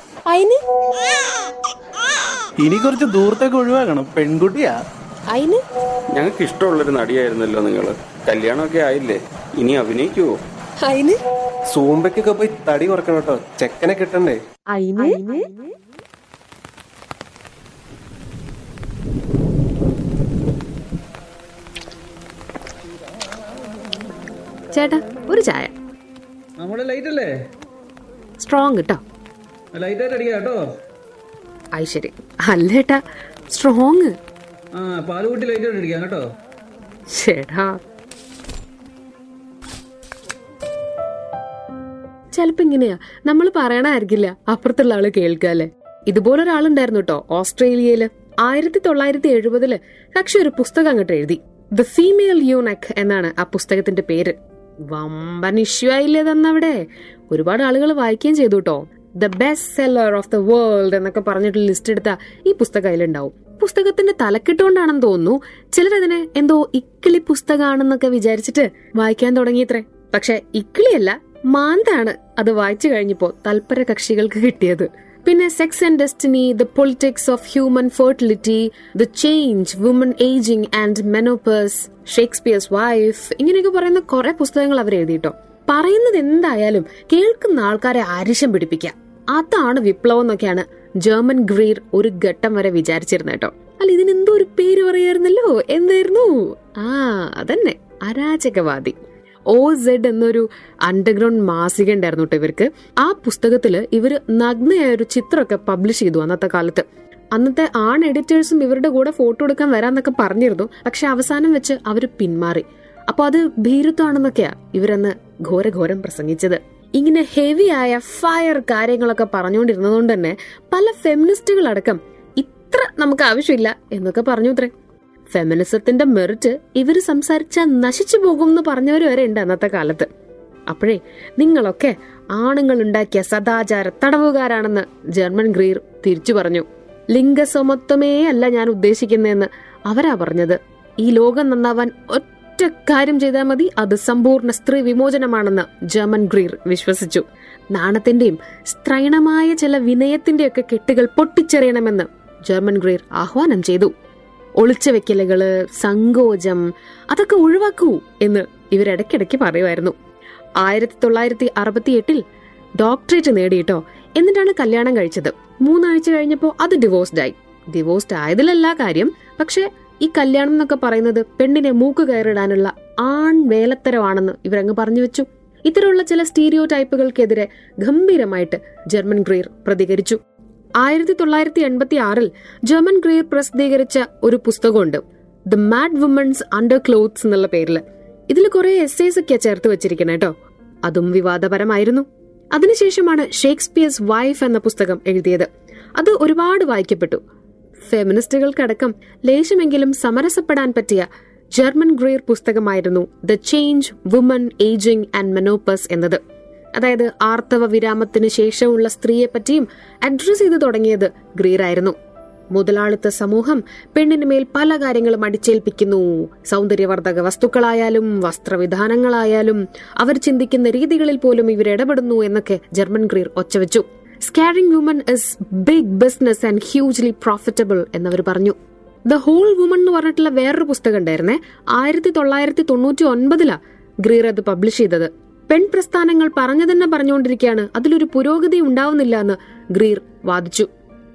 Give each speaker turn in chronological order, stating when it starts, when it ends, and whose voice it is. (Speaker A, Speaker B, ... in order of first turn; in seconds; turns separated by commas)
Speaker A: 0.3-0.6, Speaker B: 2.6-4.8, Speaker A: 5.3-5.6, Speaker C: 6.1-10.3, Speaker A: 10.8-11.2, Speaker D: 11.7-14.4, Speaker A: 14.7-15.6, Speaker E: 24.7-25.7, Speaker F: 26.6-27.3, Speaker E: 28.4-29.0, Speaker F: 29.7-30.6, Speaker E: 31.7-33.0, Speaker E: 33.5-34.1, Speaker F: 34.7-36.2, Speaker E: 37.1-37.8, Speaker E: 42.3-54.4, Speaker E: 54.9-98.9, Speaker E: 99.5-124.7, Speaker E: 125.3-130.1, Speaker E: 130.7-153.9, Speaker E: 154.6-159.9, Speaker E: 160.6-162.2, Speaker E: 162.8-180.2, Speaker E: 180.8-190.3, Speaker E: 190.8-197.2, Speaker E: 197.8-206.2, Speaker E: 206.8-211.9, Speaker E: 212.5-228.6, Speaker E: 229.1-240.7